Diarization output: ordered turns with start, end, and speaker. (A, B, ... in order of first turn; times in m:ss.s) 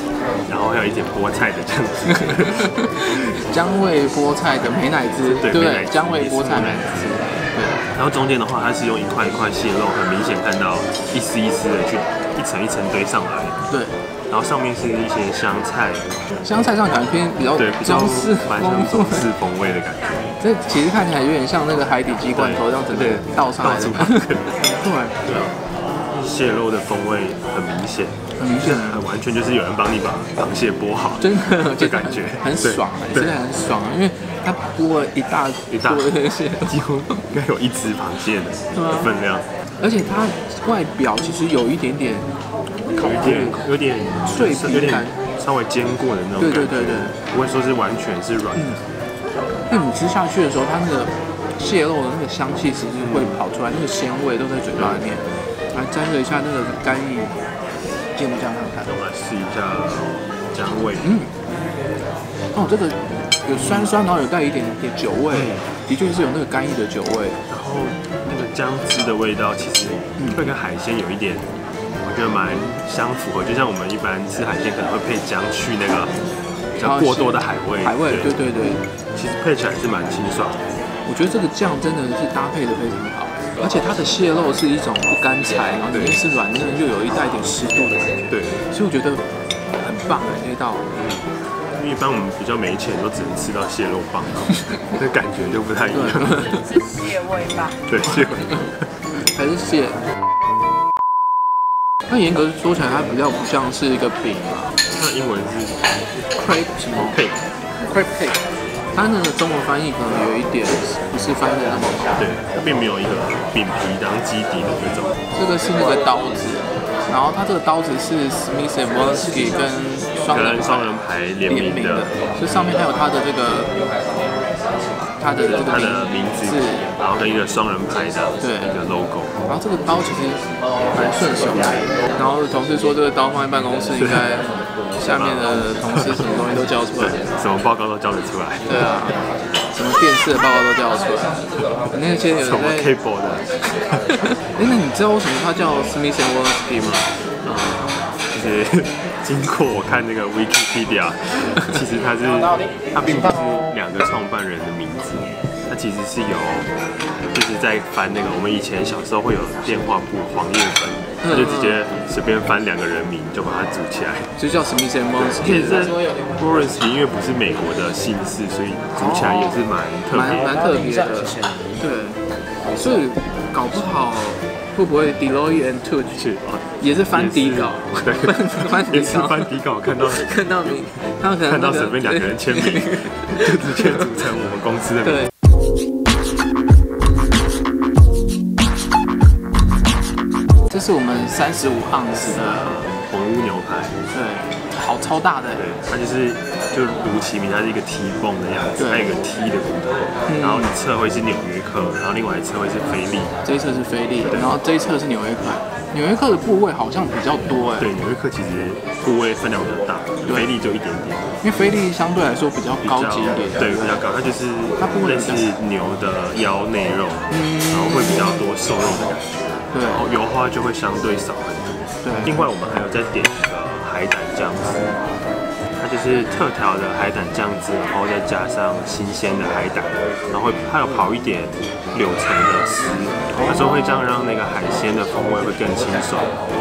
0:00.5-0:02.7 A
0:02.1-0:07.8 B
0:05.2-0:07.2 A
0:08.0-0:13.6 A
0:14.3-0:16.1 A
0:16.4-0:19.3 B
0:17.6-0:20.3 A
0:20.4-0:25.2 B
0:22.3-0:24.4 A
0:25.2-0:25.6 A
0:26.1-0:33.4 A
0:28.4-0:29.0 B
0:31.2-0:36.8 B
0:35.7-0:36.1 A
0:36.6-0:39.4 A
0:38.7-0:39.1 B
0:39.8-0:42.3 B
0:42.9-0:43.7 B
0:43.0-0:48.8 A
0:44.3-0:45.2 B
0:46.4-0:47.2 B
0:49.7-0:57.4 B
0:53.0-0:53.4 A
0:54.8-0:55.0 A
0:58.2-0:58.9 B
0:58.8-1:01.1 A
1:01.0-1:01.3 B
1:02.5-1:07.4 B
1:03.6-1:03.9 A
1:05.3-1:05.7 A
1:07.5-1:11.5 A
1:12.0-1:16.1 A
1:16.8-1:18.4 A
1:16.8-1:18.8 B
1:19.2-1:20.6 A
1:21.1-1:30.9 B
1:25.9-1:26.2 A
1:28.3-1:28.6 A
1:30.9-1:31.2 A
1:31.8-1:36.6 A
1:35.9-1:36.6 B
1:37.9-1:38.8 A
1:39.3-1:40.0 B
1:42.1-1:44.7 B
1:44.9-1:45.8 A
1:46.4-1:47.2 B
1:47.0-1:47.4 A
1:47.9-1:48.4 B
1:48.9-1:52.2 B
1:52.2-1:55.1 A
1:55.3-2:03.7 B
2:00.3-2:02.1 A
2:05.2-2:06.9 B
2:05.4-2:09.3 A
2:08.4-2:08.8 B
2:09.5-2:17.2 B
2:14.0-2:14.3 A
2:15.1-2:16.2 A
2:17.0-2:18.9 A
2:18.7-2:19.2 B
2:19.7-2:21.4 B
2:21.9-2:22.9 B
2:22.4-2:23.5 A
2:24.1-2:27.1 B
2:27.4-2:36.7 A
2:37.3-2:44.3 A
2:41.2-2:41.8 B
2:44.4-2:46.4 B
2:45.3-2:50.5 A
2:49.0-2:49.6 B
2:50.1-2:52.2 B
2:52.8-2:56.2 B
2:56.2-3:05.3 A
2:56.8-2:59.5 B
3:00.1-3:03.1 B
3:10.7-3:12.8 B
3:12.2-3:14.0 A
3:14.1-3:15.6 B
3:15.6-3:23.4 A
3:18.8-3:19.1 B
3:20.3-3:20.7 B
3:23.4-3:27.9 B
3:24.3-3:24.5 A
3:27.8-3:31.3 A
3:31.4-3:33.9 B
3:32.8-3:44.9 A
3:34.8-3:35.5 B
3:37.3-3:38.4 B
3:39.7-3:40.0 B
3:42.0-3:42.4 B
3:45.8-3:56.3 A
3:53.3-3:54.0 B